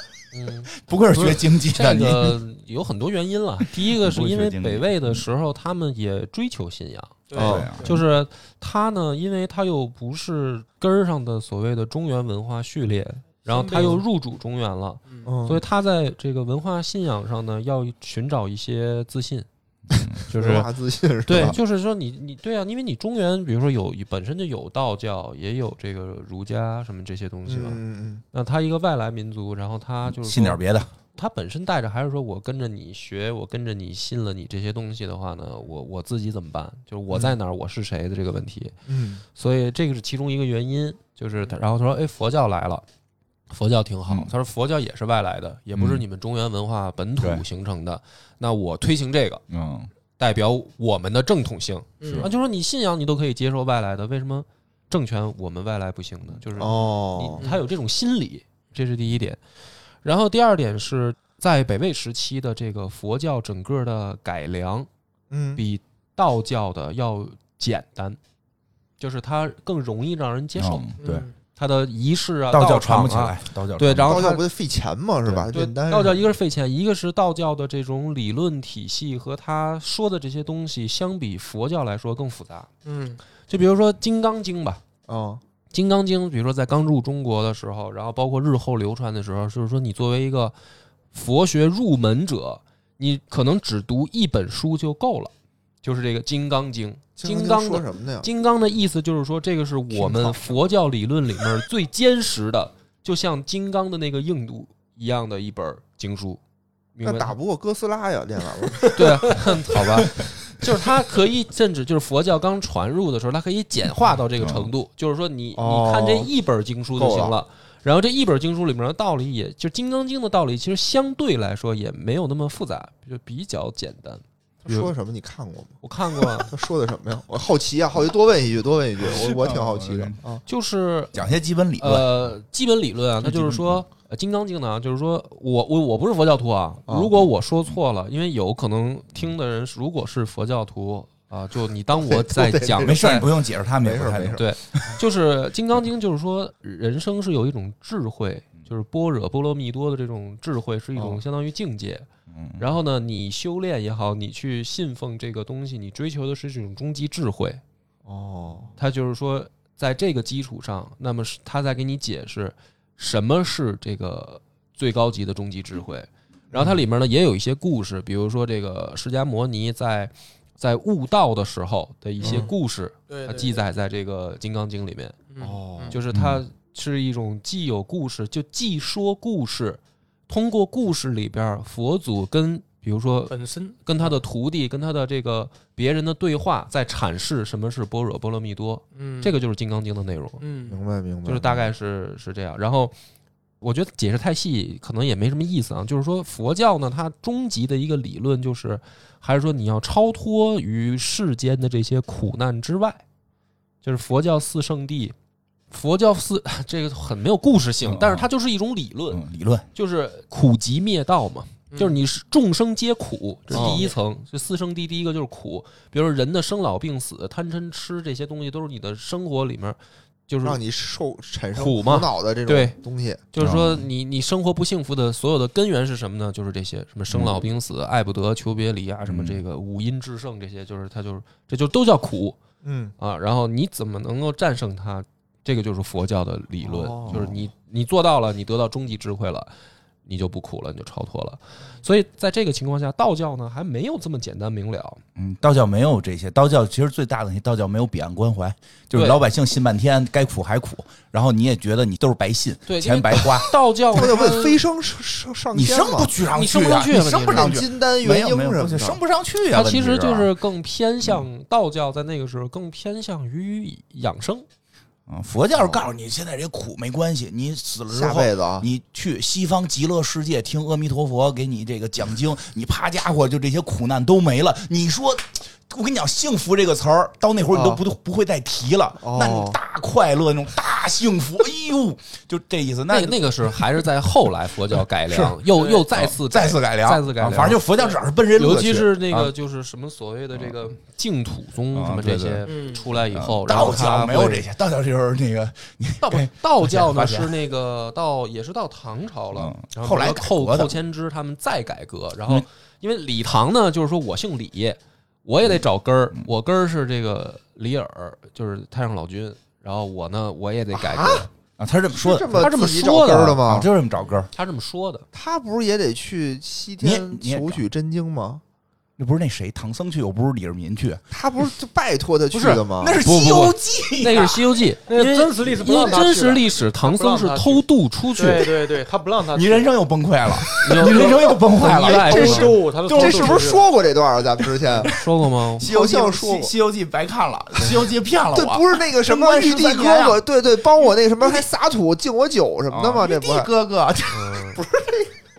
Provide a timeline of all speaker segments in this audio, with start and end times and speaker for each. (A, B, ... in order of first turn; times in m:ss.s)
0:00.3-0:07.3 A
0:00.7-0:02.4 B
0:03.8-0:05.2 B
0:07.3-0:07.9 C
0:07.3-0:07.7 D
0:07.4-0:08.0 B
0:07.8-0:19.5 A
0:13.4-0:14.0 C
0:15.2-0:15.6 D
0:19.9-0:20.2 B
0:19.9-0:21.6 D
0:20.3-0:20.7 A
0:21.2-0:30.6 A
0:27.4-0:28.2 D
0:30.1-0:30.9 B
0:31.1-0:38.8 A
0:38.8-0:39.2 D
0:39.3-0:42.8 A
0:43.5-0:49.4 A
0:45.7-0:46.0 B
0:49.5-0:49.9 B
0:50.2-0:59.4 A
0:52.0-0:52.3 C
0:52.0-0:52.3 B
0:56.6-0:57.5 D
1:00.0-1:04.9 A
1:05.3-1:05.6 D
1:05.6-1:08.2 A
1:09.0-1:10.9 A
1:10.6-1:11.3 B
1:11.0-1:11.3 C
1:11.6-1:14.4 A
1:12.5-1:14.2 B
1:14.0-1:16.2 D
1:15.3-1:22.7 A
1:22.8-1:23.2 C
1:23.5-1:24.8 A
1:25.1-1:25.4 D
1:25.7-1:30.5 A
1:31.1-1:35.3 A
1:35.8-1:46.4 A
1:37.2-1:38.3 D
1:39.9-1:40.4 D
1:46.9-1:47.3 A
1:47.0-1:49.5 D
1:48.9-2:04.9 A
1:54.4-1:54.7 B
1:55.6-1:56.3 D
1:56.9-1:57.4 D
2:04.6-2:10.4 D
2:05.8-2:06.5 A
2:09.0-2:10.2 B
2:10.5-2:23.3 A
2:11.1-2:12.3 B
2:13.2-2:13.8 B
2:16.9-2:17.1 D
2:21.9-2:24.4 D
2:22.8-2:25.0 B
2:24.4-2:37.6 A
2:30.9-2:31.2 D
2:32.3-2:32.7 B
2:38.0-2:38.7 D
2:38.8-2:55.2 A
2:46.5-2:46.8 D
2:52.2-2:52.5 C
2:52.2-2:52.5 D
2:53.1-2:53.6 C
2:55.3-2:56.0 C
2:55.4-2:56.0 D
2:55.9-3:10.4 A
2:56.1-2:56.4 B
3:03.3-3:04.1 C
3:08.9-3:09.4 C
3:10.4-3:10.8 C
3:10.7-3:11.7 D
3:11.2-3:12.9 A
3:13.6-3:23.0 A
3:23.8-3:25.1 A
3:25.7-3:29.2 A
3:27.8-3:28.3 B
3:29.1-3:29.7 B
3:29.7-3:40.6 A
3:31.7-3:32.0 C
3:33.5-3:33.9 D
3:33.5-3:33.9 C
3:40.4-3:43.2 D
3:41.5-3:42.8 A
3:43.3-3:52.4 A
3:43.4-3:43.9 B
3:47.1-3:47.4 B
3:49.0-3:49.4 B
3:52.6-3:52.9 D
3:53.0-3:59.5 A
3:56.6-3:57.3 D
3:57.1-3:57.4 B
4:00.0-4:05.0 A
4:05.2-4:13.5 B
4:08.9-4:09.2 A
4:12.7-4:14.6 A
4:13.9-4:16.1 D
4:15.5-4:20.3 B
4:16.3-4:17.6 A
4:17.2-4:19.0 D
4:19.5-4:24.4 A
4:25.1-4:43.8 B
4:25.5-4:25.8 D
4:27.9-4:28.7 D
4:37.5-4:37.8 D
4:39.0-4:39.6 D
4:42.9-4:47.7 A
4:45.1-4:49.3 B
4:48.3-4:54.4 A
4:51.7-4:52.4 B
4:52.4-4:52.9 C
4:53.1-4:57.4 B
4:56.0-5:11.3 A
4:59.3-5:00.8 B
5:10.7-5:11.3 D
5:11.6-5:12.5 B
5:11.9-5:13.7 D
5:12.3-5:13.4 A
5:13.4-5:14.3 B
5:14.3-5:15.0 A
5:15.1-5:18.4 D
5:16.8-5:17.6 B
5:19.0-5:21.0 B
5:21.1-5:23.0 D
5:22.3-5:28.5 A
5:22.6-5:24.4 B
5:24.9-5:27.6 C
5:28.2-5:29.7 C
5:29.3-5:33.6 B
5:30.5-5:32.6 A
5:30.8-5:33.6 C
5:32.9-5:34.9 D
5:34.4-5:40.2 B
5:34.8-5:35.7 A
5:35.6-5:36.5 D
5:37.6-5:43.5 D
5:42.7-5:44.6 B
5:44.1-5:44.6 A
5:44.5-5:45.1 D